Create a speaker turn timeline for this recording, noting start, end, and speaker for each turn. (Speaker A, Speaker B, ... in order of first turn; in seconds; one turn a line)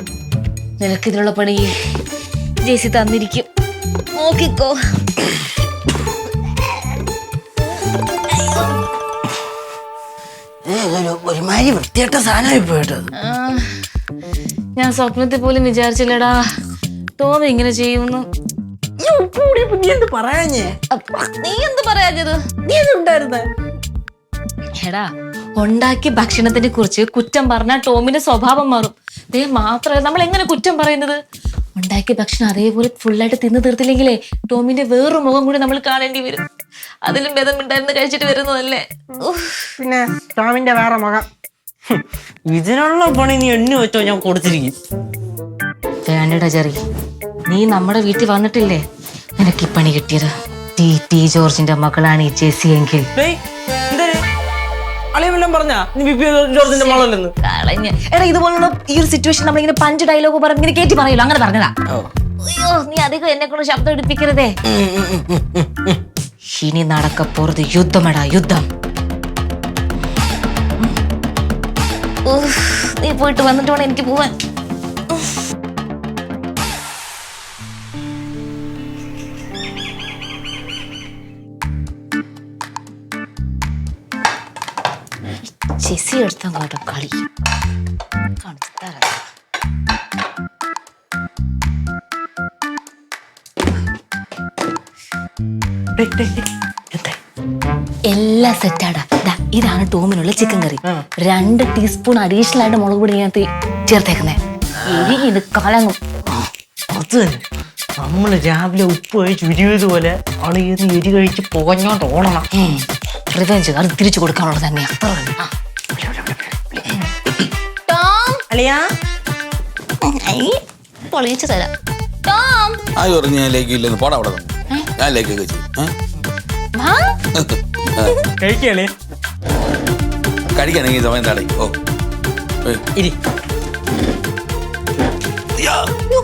Speaker A: 0.8-1.7
Speaker A: 2.6-3.5
Speaker A: 4.1-4.8
Speaker B: 10.7-13.0
Speaker A: 13.2-13.7
Speaker A: 14.8-16.4
Speaker A: 17.2-18.2
Speaker B: 19.0-20.7
Speaker A: 20.9-22.4
Speaker B: 22.6-23.4
Speaker A: 24.8-25.1
Speaker A: 25.6-31.2
Speaker A: 31.8-36.4
Speaker A: 37.0-39.7
Speaker B: 39.8-41.3
Speaker B: 41.9-44.7
Speaker A: 46.0-46.8
Speaker A: 47.5-48.8
Speaker A: 49.4-53.1
Speaker B: 53.9-54.1
Speaker B: 55.1-57.3
Speaker A: 56.7-61.7
Speaker A: 62.4-64.5
Speaker B: 64.7-66.0
Speaker A: 66.5-68.6
Speaker A: 72.2-74.3
Speaker A: 85.4-87.2
Speaker A: 88.4-89.1
Speaker B: 96.0-97.2
Speaker A: 98.1-106.0
Speaker B: 104.8-105.1
Speaker B: 106.9-107.4
Speaker B: 108.0-112.5
Speaker A: 112.5-115.5
Speaker B: 116.0-116.5
Speaker A: 117.9-118.4
Speaker B: 118.5-118.8
Speaker A: 120.0-121.7
Speaker A: 122.2-122.8
Speaker C: 122.9-125.9
Speaker A: 126.8-127.1
Speaker C: 127.3-128.1
Speaker B: 128.4-128.9
Speaker C: 130.5-131.8
Speaker C: 135.6-135.9